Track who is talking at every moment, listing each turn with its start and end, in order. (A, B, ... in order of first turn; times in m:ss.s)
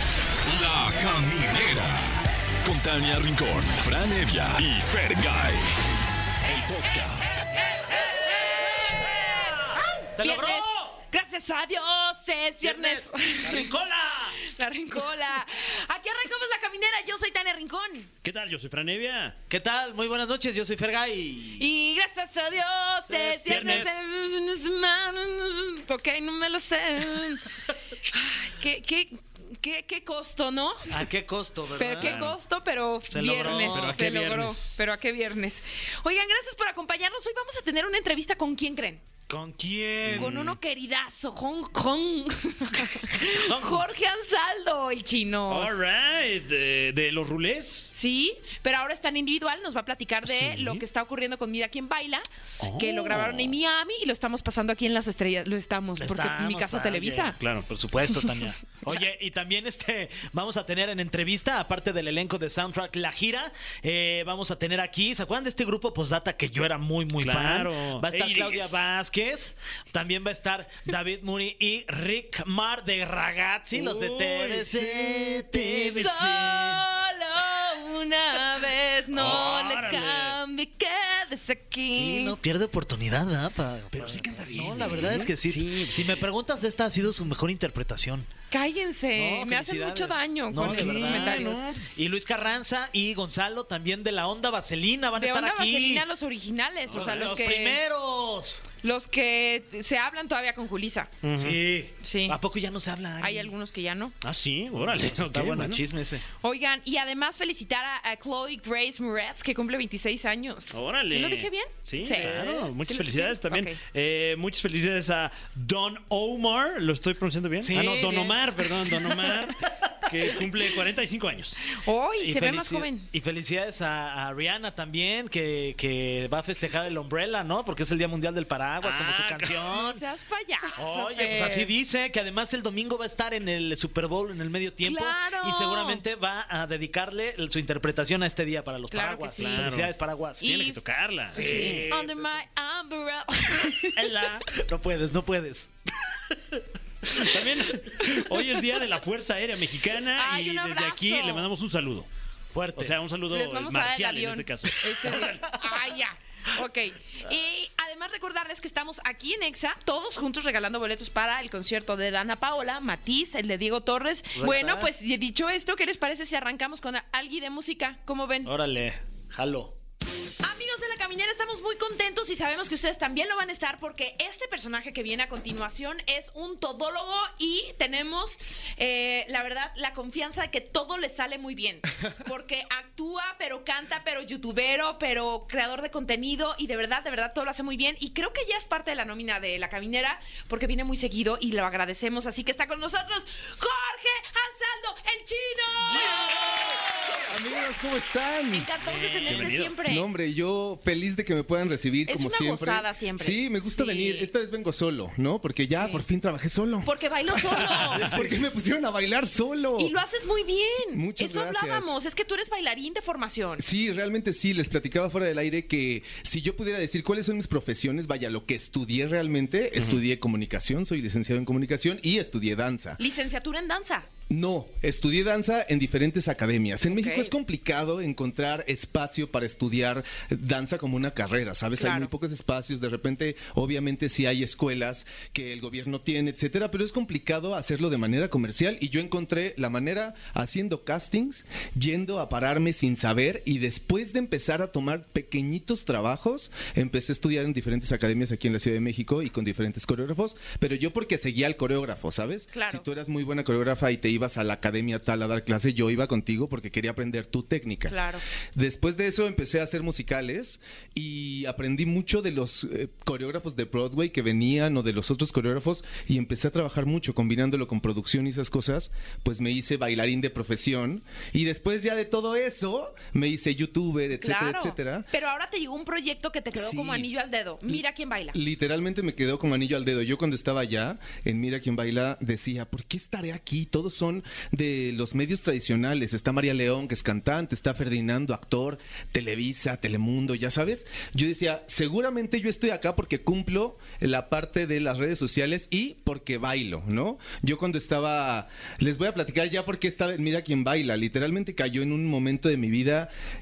0:00.4-0:05.6 A
0:06.4-0:07.4 A
0:06.5-0:13.7 B
0:10.1-0:10.9 C
0:12.6-0:14.4 C
0:14.4-0:18.1 B
0:18.2-0:19.4 D
0:19.5-0:21.6 C
0:21.6-0:27.4 B
0:23.1-0:23.9 C
0:23.5-0:24.0 D
0:28.1-0:30.8 B
0:30.9-0:32.2 C
0:31.8-0:39.0 B
0:32.0-0:32.4 D
0:33.1-0:34.0 C
0:33.4-0:34.7 D
0:39.3-0:40.5 C
0:40.1-0:40.4 D
0:40.1-0:45.8 B
0:43.3-0:43.8 C
0:45.5-0:47.9 D
0:47.9-0:57.4 B
0:50.4-0:50.8 D
0:52.6-0:53.6 D
0:56.0-1:16.6 C
0:57.4-0:57.6 D
1:07.2-1:08.8 D
1:13.7-1:16.2 D
1:15.8-1:22.4 B
1:19.1-1:20.4 D
1:22.0-1:28.3 C
1:24.0-1:26.1 D
1:24.0-1:25.3 E
1:28.5-1:31.6 B
1:29.1-1:36.0 C
1:30.6-1:31.8 D
1:35.2-1:37.8 B
1:36.9-1:38.6 C
1:38.8-1:41.1 B
1:41.2-1:41.6 D
1:41.4-1:43.5 C
1:42.0-1:42.4 B
1:43.2-1:44.1 B
1:44.2-1:45.8 D
1:44.7-1:46.2 C
1:46.4-1:53.8 B
1:50.7-2:01.6 D
1:57.6-1:59.5 C
2:01.7-2:03.1 B
2:02.2-2:10.0 C
2:08.8-2:09.6 D
2:09.6-2:11.7 B
2:10.8-2:20.5 C
2:14.8-2:16.0 B
2:18.9-2:19.7 B
2:19.4-2:22.3 D
2:20.4-2:20.8 B
2:21.3-2:24.0 B
2:21.3-2:22.4 C
2:23.9-2:24.4 D
2:24.5-2:25.7 C
2:27.1-2:32.1 D
2:30.2-2:31.5 B
2:32.5-2:32.9 C
2:32.8-2:35.6 D
2:33.3-2:48.5 B
2:44.4-2:44.9 C
2:48.4-2:49.7 C
2:50.4-3:17.2 B
3:17.2-3:18.7 E
3:18.5-3:20.1 B
3:19.2-3:19.7 D
3:19.3-3:30.0 E
3:22.1-3:24.3 B
3:25.7-3:26.0 B
3:26.8-3:28.2 B
3:29.8-3:33.6 B
3:30.9-3:31.9 E
3:33.6-3:43.0 E
3:43.0-3:44.1 B
3:44.3-4:18.0 E
3:46.8-3:47.3 B
3:51.8-3:52.1 B
4:12.5-4:12.8 B
4:17.8-4:18.2 B
4:18.5-4:35.1 E
4:34.2-4:38.4 B
4:36.5-4:37.1 E
4:37.6-5:03.1 E